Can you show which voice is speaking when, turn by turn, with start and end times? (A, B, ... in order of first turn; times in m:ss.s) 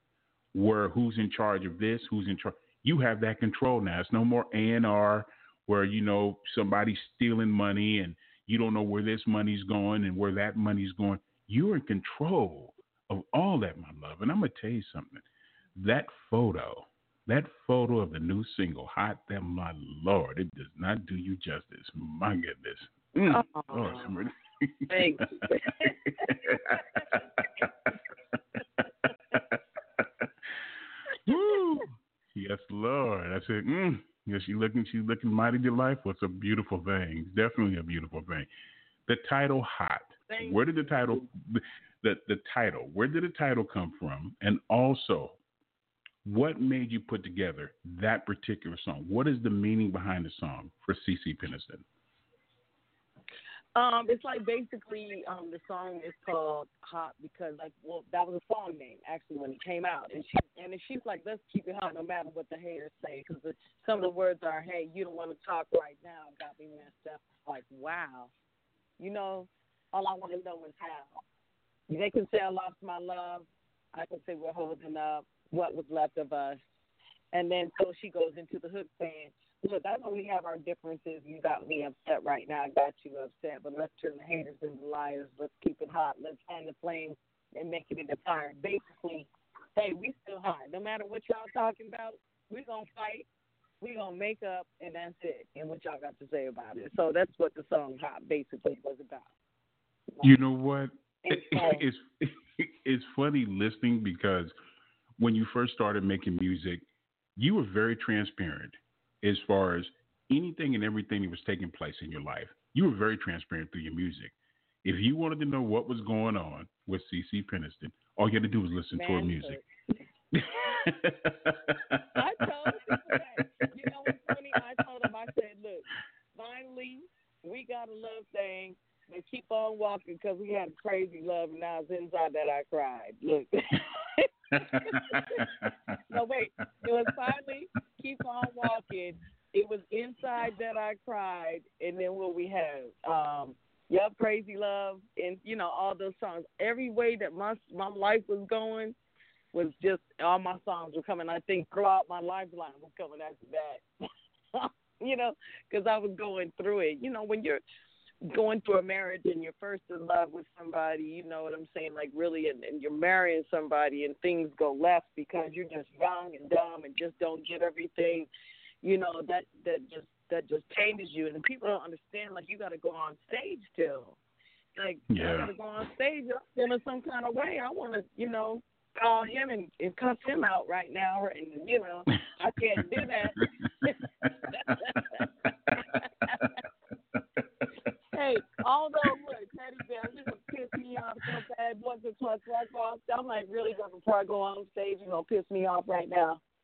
0:00.5-0:15.2 A
0:15.8-0:27.7 A
0:23.2-0:24.1 B
0:24.9-0:26.4 B
0:28.8-0:30.3 A
0:31.2-0:38.5 A
0:39.1-0:45.4 A
0:40.3-0:41.2 B
0:46.2-0:51.8 A
0:53.8-1:08.3 B
1:09.0-1:11.1 B
1:11.9-1:16.6 B
1:17.3-1:33.2 B
1:33.8-1:39.2 B
1:40.2-1:44.5 A
1:41.2-1:41.8 B
1:45.2-1:46.8 A
1:47.4-1:59.6 A
1:58.9-1:59.6 B
2:00.3-2:02.0 A
2:00.4-2:00.9 B
2:02.1-2:15.5 B
2:02.7-2:03.1 A
2:14.6-2:15.9 A
2:16.1-2:28.9 B
2:29.5-2:33.8 B
2:34.5-2:37.6 B
2:38.2-2:48.3 B
2:48.8-2:54.2 B
2:54.8-3:06.5 B
2:55.1-2:55.5 A
3:04.2-3:04.7 A
3:08.1-3:16.4 B